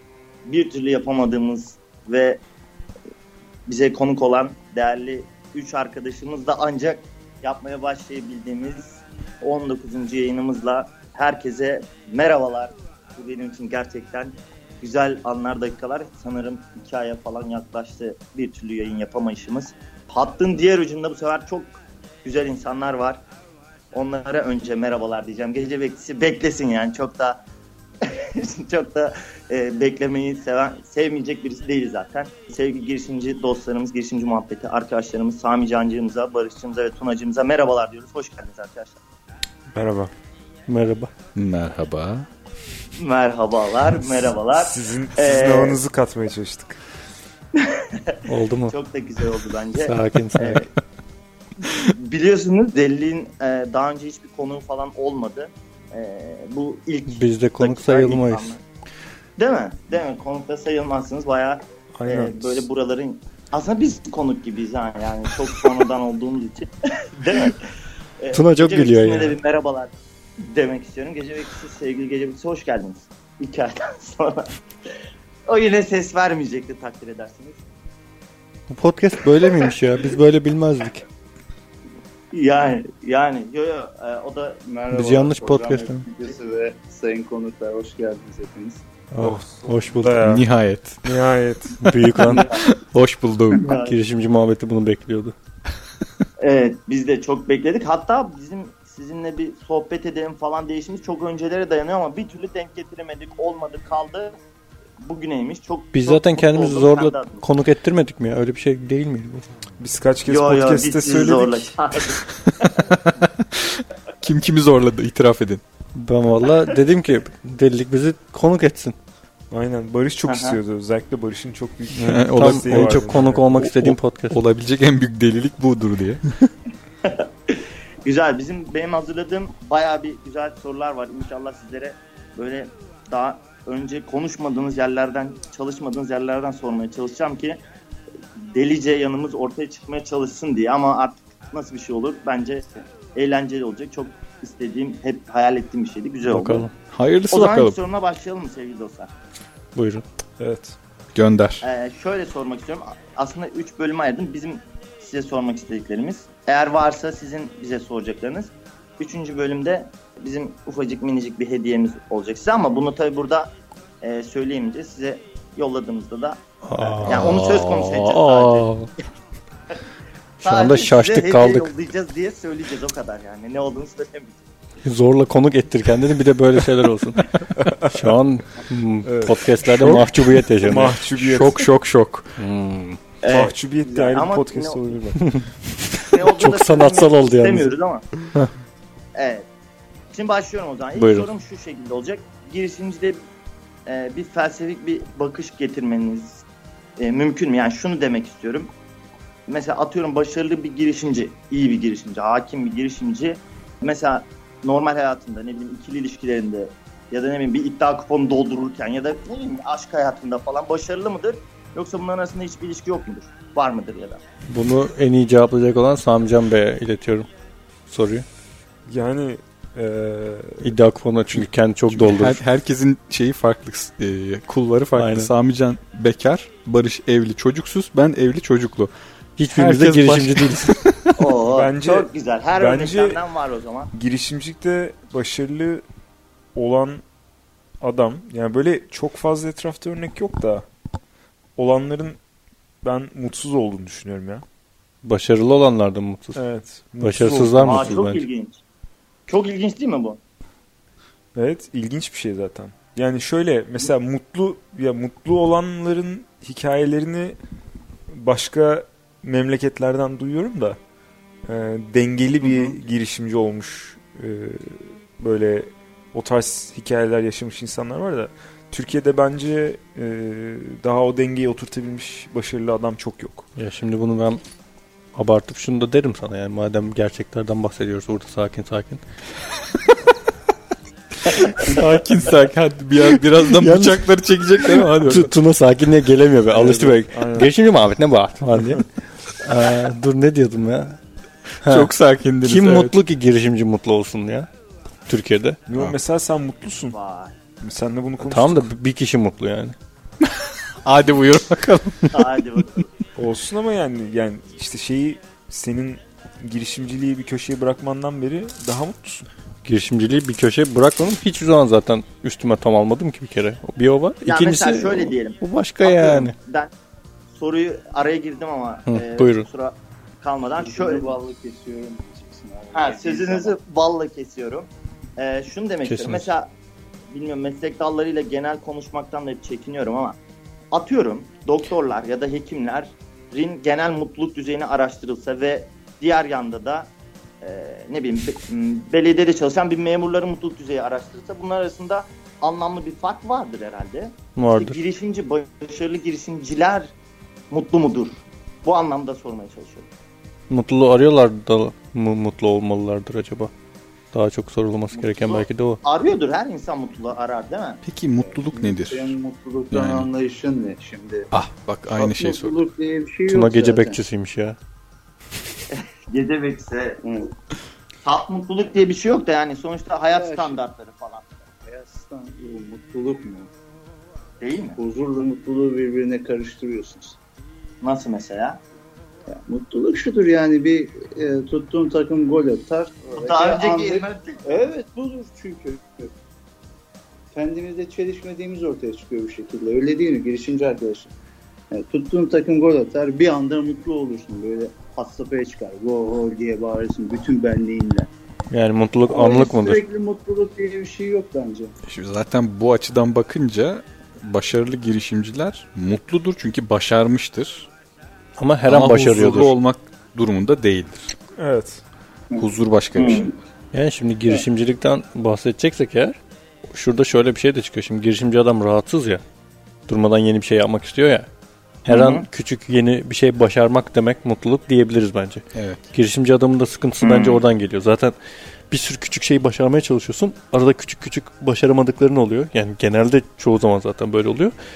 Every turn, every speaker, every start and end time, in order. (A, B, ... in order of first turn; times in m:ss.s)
0:00.4-0:02.4 A
0:03.7-0:23.2 A
0:23.9-0:27.4 A
0:28.0-0:39.0 A
0:39.7-0:40.1 B
0:40.7-0:41.1 C
0:41.3-0:42.3 D
0:43.0-0:45.8 A
0:44.5-0:46.8 B
0:47.6-0:49.9 A
0:48.2-0:48.7 C
0:49.8-0:50.7 C
0:51.6-0:58.6 A
0:57.1-0:58.6 C
0:59.4-1:07.6 A
1:01.9-1:02.6 B
1:08.2-1:14.5 A
1:08.3-1:09.4 C
1:15.5-1:17.6 A
1:18.7-1:21.0 C
1:22.3-1:24.6 A
1:24.7-1:28.8 E
1:24.9-1:26.1 C
1:29.1-1:30.2 C
1:29.2-1:30.4 B
1:30.2-1:31.0 D
1:31.0-1:31.9 B
1:31.8-1:32.5 C
1:32.3-1:33.7 D
1:33.6-1:34.0 A
1:33.6-1:35.3 C
1:36.4-1:44.4 A
1:45.0-1:47.4 A
1:45.9-1:49.4 C
1:49.8-1:51.8 B
1:50.3-1:52.9 A
1:53.1-1:55.6 D
1:55.9-1:59.0 C
1:59.5-2:03.5 B
2:00.2-2:00.6 A
2:02.0-2:06.2 D
2:02.1-2:04.4 C
2:07.0-2:17.6 A
2:18.4-2:26.7 A
2:26.2-2:26.7 C
2:26.9-2:27.8 D
2:27.3-2:29.1 A
2:29.7-2:30.0 C
2:30.4-2:30.8 B
2:31.1-2:31.6 D
2:31.6-2:48.7 A
2:46.6-2:48.9 C
2:47.0-2:48.1 D
2:50.4-2:51.7 C
2:50.4-2:54.4 A
2:54.8-3:00.9 C
2:57.6-2:57.9 B
2:59.0-2:59.9 B
2:59.7-3:00.1 D
3:00.6-3:01.6 B
3:01.1-3:02.4 D
3:02.4-3:03.0 C
3:03.2-3:04.8 A
3:03.2-3:05.2 B
3:05.2-3:05.5 C
3:06.0-3:07.7 C
3:06.1-3:08.1 A
3:09.1-3:09.4 A
3:10.1-3:13.2 A
3:11.0-3:11.3 C
3:13.8-3:16.4 A
3:17.0-3:18.7 A
3:19.5-3:34.2 A
3:34.5-3:37.3 C
3:37.9-3:38.2 C
3:38.9-3:40.7 B
3:40.6-3:42.4 C
3:41.3-3:48.9 D
3:45.0-3:45.3 C
3:49.4-3:50.8 C
3:49.5-3:51.1 D
3:51.2-3:53.9 A
3:51.5-3:53.2 B
3:53.9-3:55.8 B
3:56.5-3:57.0 B
3:57.8-4:00.6 B
4:01.6-4:02.2 B
4:02.8-4:04.4 B
4:05.0-4:06.4 C
4:06.3-4:08.0 B
4:07.0-4:08.2 C
4:07.6-4:08.6 A
4:09.3-4:10.2 A
4:11.3-4:17.4 B
4:18.1-4:20.8 B
4:21.4-4:33.4 B
4:22.4-4:22.7 A
4:33.6-4:34.4 C
4:35.1-4:39.0 C
4:41.3-4:45.3 D
4:41.6-4:42.0 C
4:43.4-4:44.0 C
4:44.6-4:51.0 C
4:46.5-4:47.5 B
4:51.6-4:51.9 C
4:51.6-4:52.9 D
4:52.4-4:54.5 C
4:55.1-4:55.6 C
4:55.7-4:56.9 B
4:56.9-4:57.3 A
4:57.6-4:58.7 B
4:58.2-4:59.7 C
5:00.2-5:02.5 D
5:02.1-5:02.8 A
5:03.2-5:09.2 B
5:09.6-5:16.3 C
5:14.2-5:16.7 A
5:17.3-5:21.1 A
5:18.9-5:19.5 C
5:20.6-5:23.6 E
5:22.7-5:26.5 A
5:25.8-5:26.3 C
5:27.1-5:30.2 A
5:30.7-5:36.9 A
5:37.4-5:46.9 A
5:44.4-5:44.8 C
5:47.5-5:49.9 A
5:50.5-5:53.5 C
5:54.1-5:55.8 C
5:54.9-5:57.8 A
5:57.8-5:59.2 D
5:58.2-6:01.3 E
5:59.7-6:00.1 D
6:01.3-6:02.6 D
6:01.9-6:04.0 E
6:03.3-6:04.6 C
6:05.7-6:07.0 A
6:07.0-6:07.3 E
6:08.0-6:11.4 A
6:10.1-6:10.6 E
6:11.6-6:13.5 E
6:14.4-6:14.8 A
6:14.8-6:17.2 E
6:17.8-6:18.6 A
6:19.3-6:26.1 E
6:23.2-6:24.6 A
6:27.3-6:31.1 E
6:31.7-6:38.1 E
6:38.5-6:39.8 C
6:39.1-6:41.7 E
6:41.8-6:47.7 D
6:48.4-6:49.5 C
6:48.6-6:51.1 D
6:51.4-6:51.8 B
6:52.4-6:53.3 D
6:53.0-6:53.3 A
6:53.0-6:53.3 E
6:53.7-6:56.2 C
6:56.7-6:59.2 C
6:59.9-7:01.3 C
7:01.8-7:08.1 C
7:01.9-7:02.2 A
7:05.5-7:05.8 D
7:07.0-7:07.4 A
7:08.7-7:14.5 C